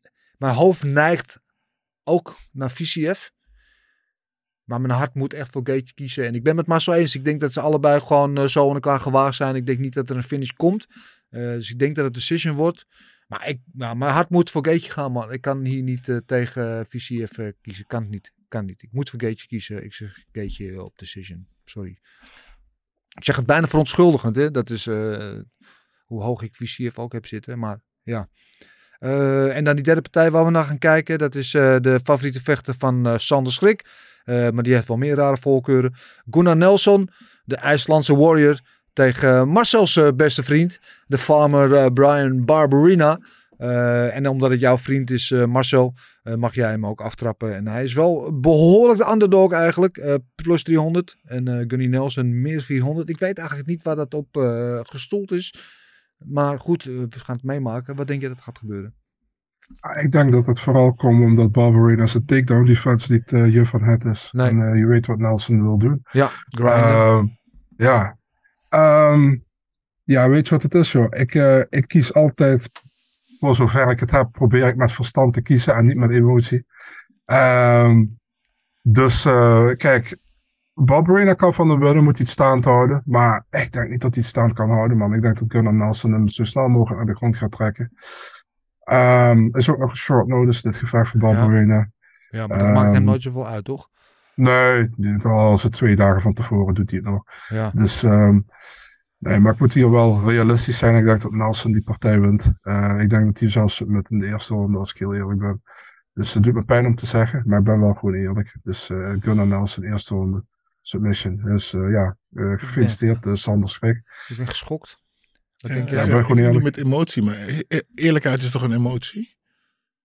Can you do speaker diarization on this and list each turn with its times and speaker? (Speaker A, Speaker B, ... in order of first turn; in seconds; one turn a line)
Speaker A: 0.4-1.4
Speaker A: 2.1-3.3
Speaker A: 4.7-22.0
Speaker A: 23.2-25.4
Speaker A: 26.1-28.3
Speaker A: 29.0-55.5
Speaker A: 56.2-58.9
Speaker B: 59.8-66.0
Speaker A: 66.1-67.0
Speaker B: 66.7-68.1
Speaker B: 68.7-69.4
Speaker B: 70.1-72.7
Speaker B: 73.4-76.6
Speaker B: 77.3-78.2
Speaker B: 78.8-80.2
Speaker B: 80.8-87.9
Speaker B: 88.9-91.9
Speaker A: 92.3-93.9
Speaker B: 92.5-93.2
Speaker B: 94.4-98.5
Speaker B: 99.2-105.6
Speaker B: 106.2-114.0
Speaker A: 112.6-113.0
Speaker A: 114.3-115.0
Speaker A: 115.6-116.1
Speaker C: 115.7-119.3
Speaker B: 115.9-116.7